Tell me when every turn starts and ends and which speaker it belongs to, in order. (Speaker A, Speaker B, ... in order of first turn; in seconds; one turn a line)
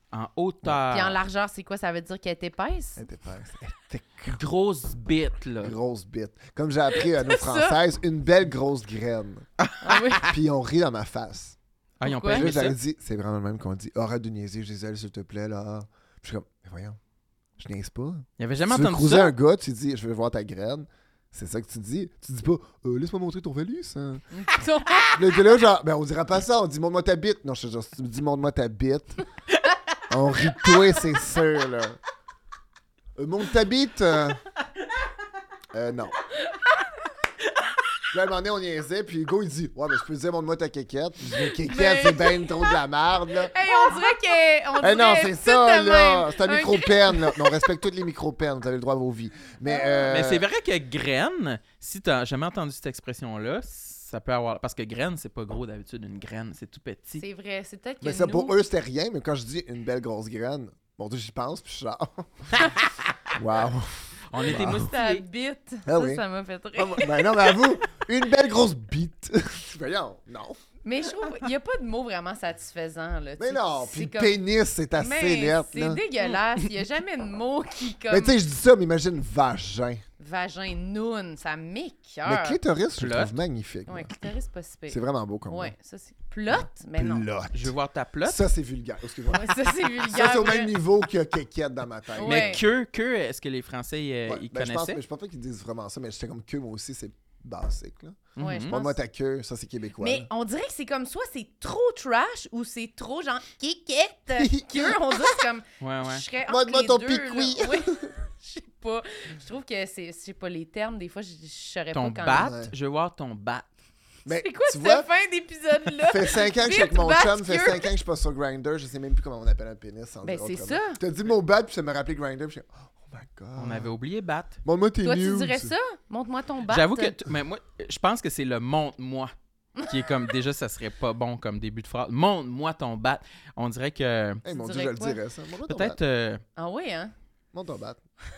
Speaker A: 0.1-1.2
Speaker B: 0.9-3.0
Speaker C: 3.0-4.4
Speaker A: 4.3-5.7
Speaker C: 5.6-9.5
Speaker B: 7.2-7.8
Speaker A: 9.6-10.2
Speaker B: 9.8-10.3
Speaker C: 10.2-11.6
Speaker A: 12.0-12.8
Speaker B: 12.0-12.5
Speaker C: 12.3-17.0
Speaker C: 17.6-24.2
Speaker A: 18.4-19.3
Speaker B: 24.3-25.6
Speaker C: 25.1-29.2
Speaker C: 30.1-32.0
Speaker C: 33.1-34.4
Speaker C: 35.7-36.2
Speaker C: 38.1-43.5
Speaker B: 41.3-42.8
Speaker B: 43.3-47.6
Speaker C: 44.8-50.4
Speaker B: 49.8-50.0
Speaker A: 50.0-57.2
Speaker B: 57.2-58.5
Speaker C: 58.0-62.6
Speaker C: 63.3-64.9
Speaker A: 64.3-65.2
Speaker B: 64.4-67.7
Speaker C: 65.8-66.2
Speaker C: 66.8-70.6
Speaker B: 70.8-74.3
Speaker C: 73.4-76.0
Speaker B: 75.0-78.3
Speaker C: 78.1-80.0
Speaker B: 80.2-82.6
Speaker C: 82.2-84.2
Speaker A: 83.0-83.3
Speaker B: 83.9-87.2
Speaker C: 84.9-85.7
Speaker C: 86.5-92.6
Speaker A: 87.5-88.4
Speaker B: 89.3-90.7
Speaker B: 92.2-92.6
Speaker A: 92.2-95.0
Speaker C: 94.3-100.3
Speaker A: 98.3-98.8
Speaker B: 98.4-99.0
Speaker B: 100.0-112.5
Speaker C: 104.3-105.4
Speaker A: 105.8-106.2
Speaker C: 106.5-108.1
Speaker A: 111.9-113.7
Speaker C: 112.3-112.7
Speaker C: 114.2-115.1
Speaker B: 114.3-117.9
Speaker C: 116.0-123.9
Speaker B: 120.2-121.0
Speaker A: 123.5-124.6
Speaker C: 124.6-125.7
Speaker B: 125.0-127.2
Speaker A: 126.7-134.4
Speaker C: 134.4-136.0
Speaker B: 134.4-135.2
Speaker A: 135.7-136.4
Speaker B: 136.6-137.1
Speaker C: 137.5-138.0